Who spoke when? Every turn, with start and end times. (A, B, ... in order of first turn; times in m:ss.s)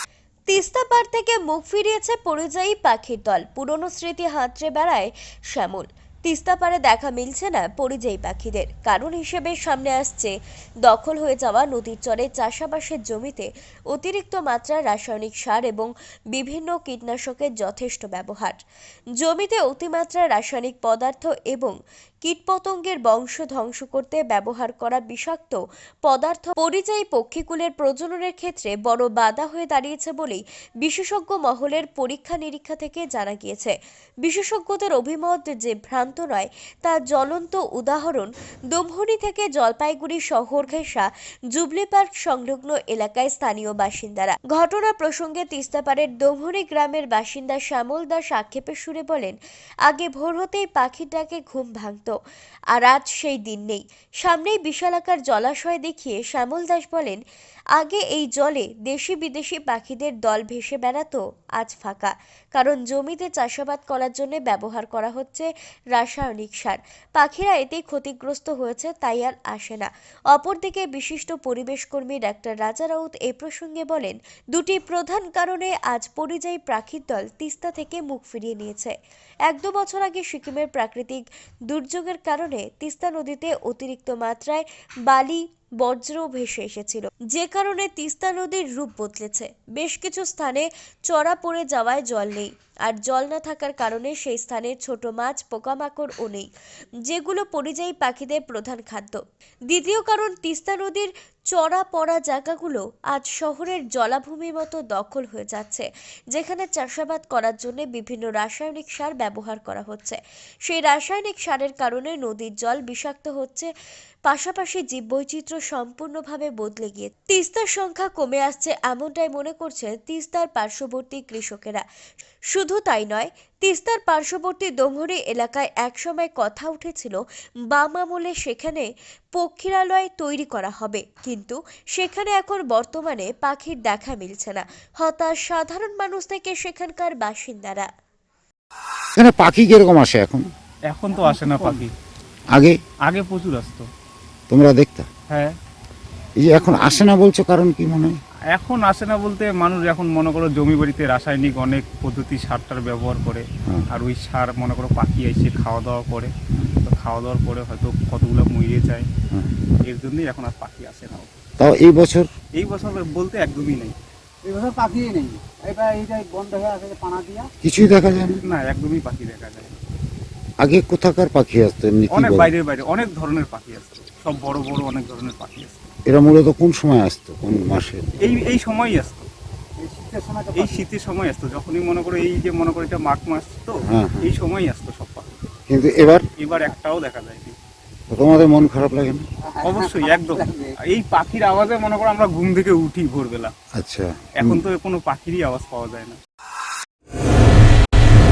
0:00.5-0:10.3 A
0:10.8-0:18.6 A
0:19.2-0:33.7 A
0:34.2-0:52.2 A
0:52.7-0:57.2 A
0:57.8-1:18.9 A
1:19.5-1:36.5 A
1:37.1-1:53.7 A
1:54.3-2:01.8 A
2:02.5-2:07.2 A
2:07.7-2:17.9 A
2:19.2-2:20.5 B
2:20.9-2:21.9 C
2:21.2-2:21.6 D
2:22.5-2:22.8 B
2:23.0-2:23.9 C
2:24.5-2:25.1 B
2:25.3-2:25.5 C
2:26.4-2:28.1 B
2:26.6-2:27.1 C
2:28.5-2:39.0 C
2:39.8-2:41.3 C
2:41.6-2:42.3 B
2:42.6-2:43.9 C
2:44.4-2:47.5 D
2:47.6-2:48.4 B
2:48.4-2:49.7 C
2:50.6-2:52.5 B
2:52.1-2:55.9 C
2:56.1-2:58.1 B
2:58.2-2:59.3 C
2:59.8-3:00.9 D
3:00.5-3:05.3 C
3:03.8-3:04.3 B
3:05.7-3:06.2 B
3:06.4-3:07.6 C
3:08.1-3:09.2 B
3:09.5-3:10.7 D
3:09.6-3:13.5 C
3:13.8-3:14.6 B
3:14.4-3:16.2 C